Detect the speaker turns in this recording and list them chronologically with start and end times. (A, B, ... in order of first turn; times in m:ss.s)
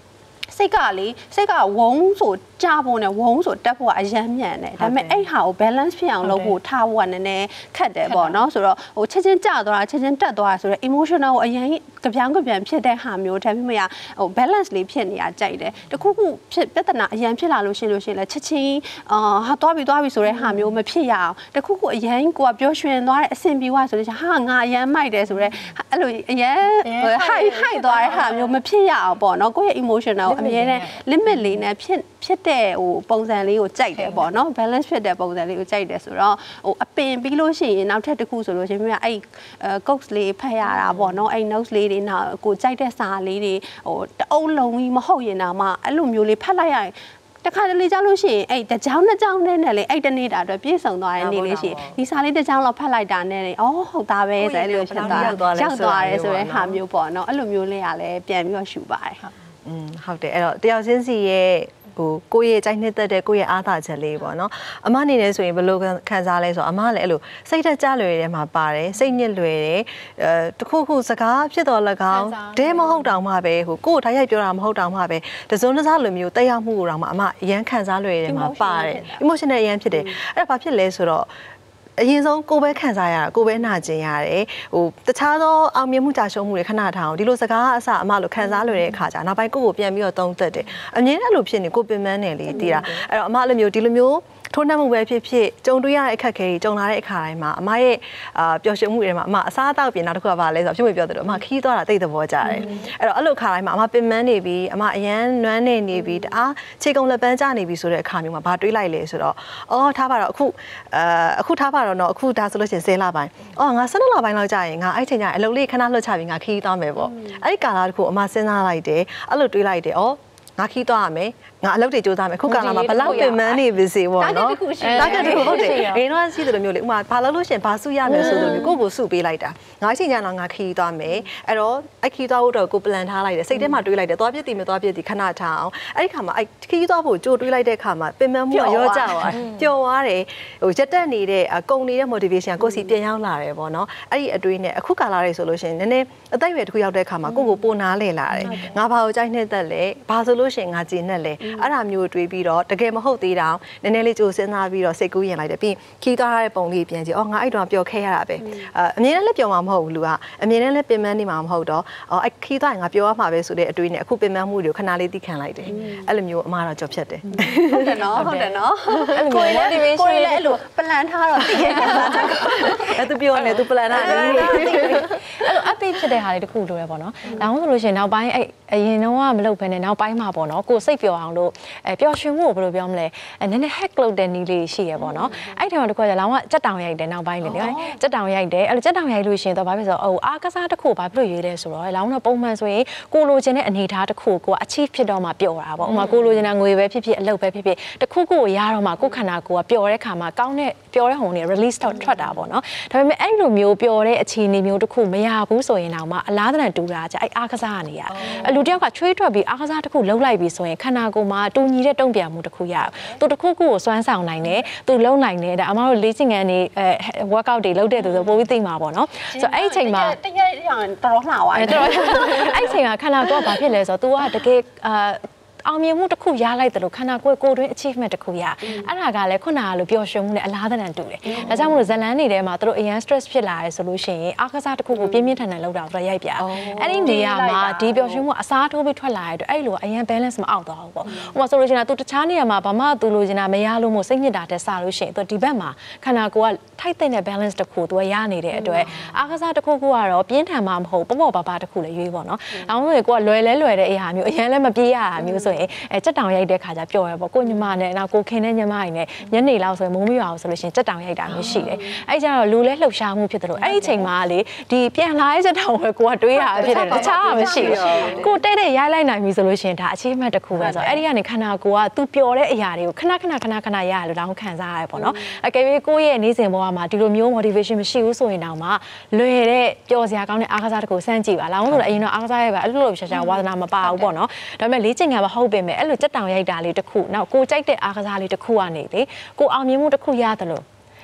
0:00.5-0:59.2 A
0:04.8-0:05.2 B
0:06.2-0:06.5 C
0:08.1-0:08.4 C
0:26.8-0:28.5 C
0:30.2-0:31.0 C
0:51.2-0:52.0 B
0:54.4-0:56.8 B
0:59.6-1:21.3 B
1:12.1-1:13.0 C
1:18.2-1:19.2 A
1:22.0-2:48.3 B
2:02.4-2:03.6 C
2:02.9-2:03.4 A
2:04.2-2:05.8 A
2:04.8-2:06.0 C
2:08.1-2:08.8 A
2:08.1-2:08.6 C
2:18.5-2:19.4 A
2:22.6-2:22.9 A
2:27.3-2:27.6 A
2:28.4-2:28.7 A
2:31.4-2:31.7 A
2:38.4-2:38.7 A
2:45.7-2:46.1 A
2:47.4-2:53.0 A
2:48.1-2:48.6 C
2:49.1-2:50.6 C
2:51.4-2:52.8 C
2:52.2-2:55.1 B
2:53.4-3:40.2 C
2:53.9-2:55.2 A
3:07.4-3:08.0 A
3:28.3-3:28.6 B
3:38.0-3:38.4 A
3:39.3-3:42.8 A
3:41.5-4:50.6 C
3:51.3-3:51.6 A
3:54.9-3:55.3 A
3:56.4-3:57.1 B
3:56.6-3:58.2 A
4:08.5-4:08.9 A
4:15.2-4:15.6 A
4:21.4-4:21.8 A
4:23.7-4:24.0 A
4:26.4-4:28.3 A
4:26.6-4:28.3 B
4:30.6-4:31.0 B
4:35.0-4:35.3 A
4:43.1-4:44.1 A